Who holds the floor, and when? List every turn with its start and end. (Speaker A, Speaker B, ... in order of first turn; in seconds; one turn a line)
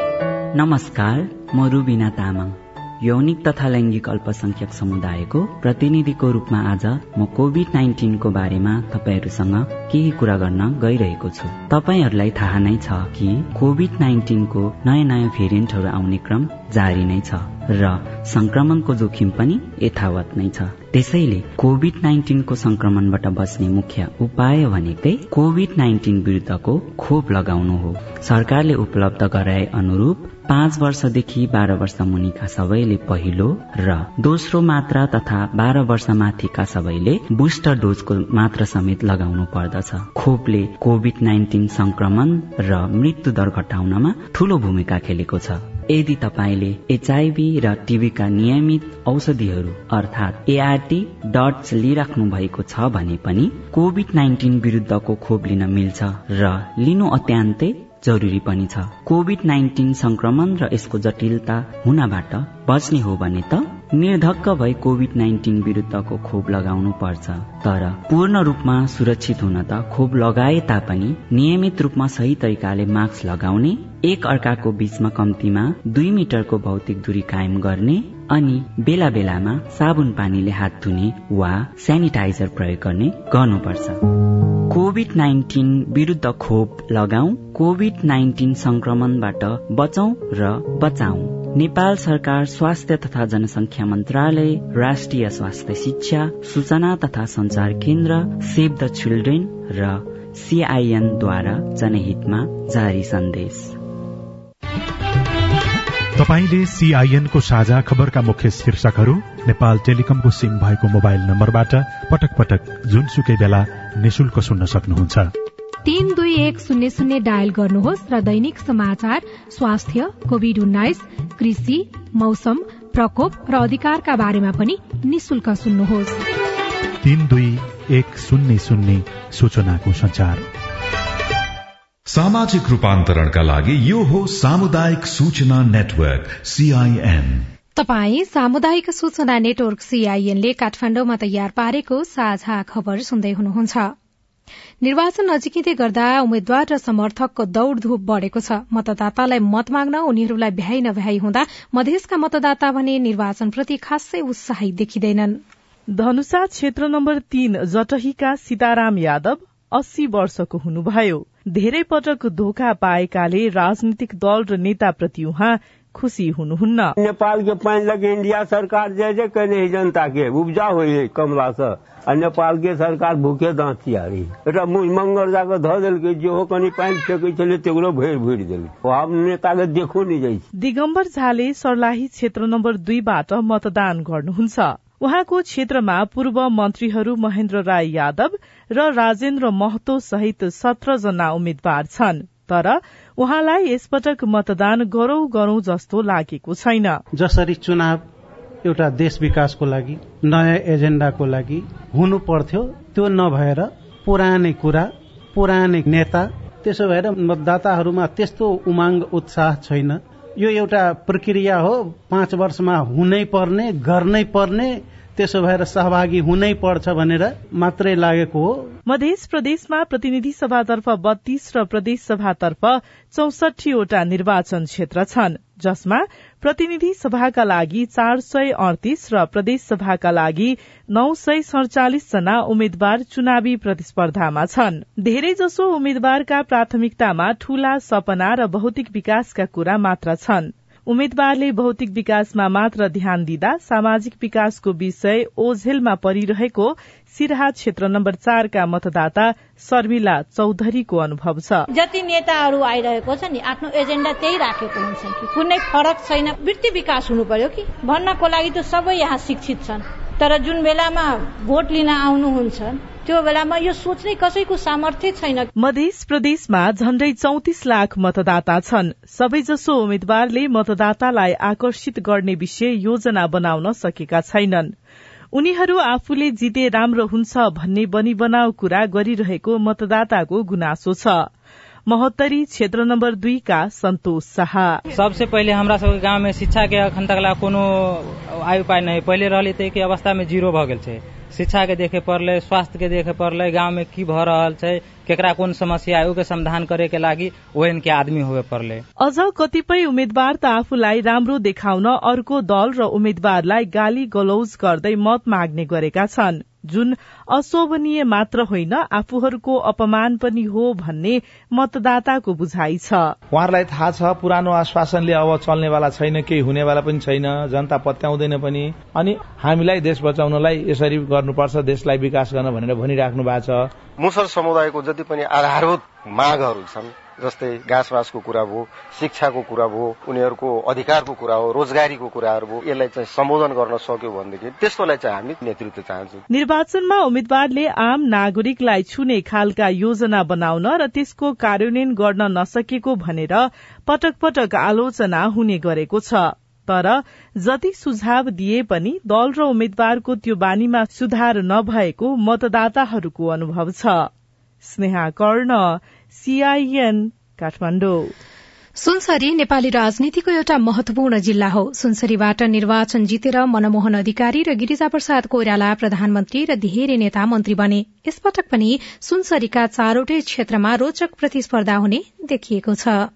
Speaker A: 0.5-84.0
Speaker A: 84.6-103.8
Speaker B: 106.2-115.3
Speaker C: 115.8-126.2
Speaker B: 127.0-130.5
Speaker D: 132.1-137.5
Speaker C: 137.8-143.9
Speaker C: 144.8-155.4
Speaker E: 155.9-166.9
Speaker F: 167.0-180.4
Speaker E: 180.6-197.0
Speaker G: 197.1-198.0
Speaker G: 198.6-218.8
Speaker E: 218.9-251.7
Speaker H: 251.7-265.5
Speaker E: 265.6-274.7
Speaker E: 275.3-281.3
Speaker E: 281.9-284.8
Speaker I: 284.9-298.8
Speaker E: 299.0-313.1
Speaker J: 313.3-323.7
Speaker K: 324.0-336.2
Speaker E: 336.3-354.1
Speaker E: 354.6-358.1
Speaker C: 358.8-373.1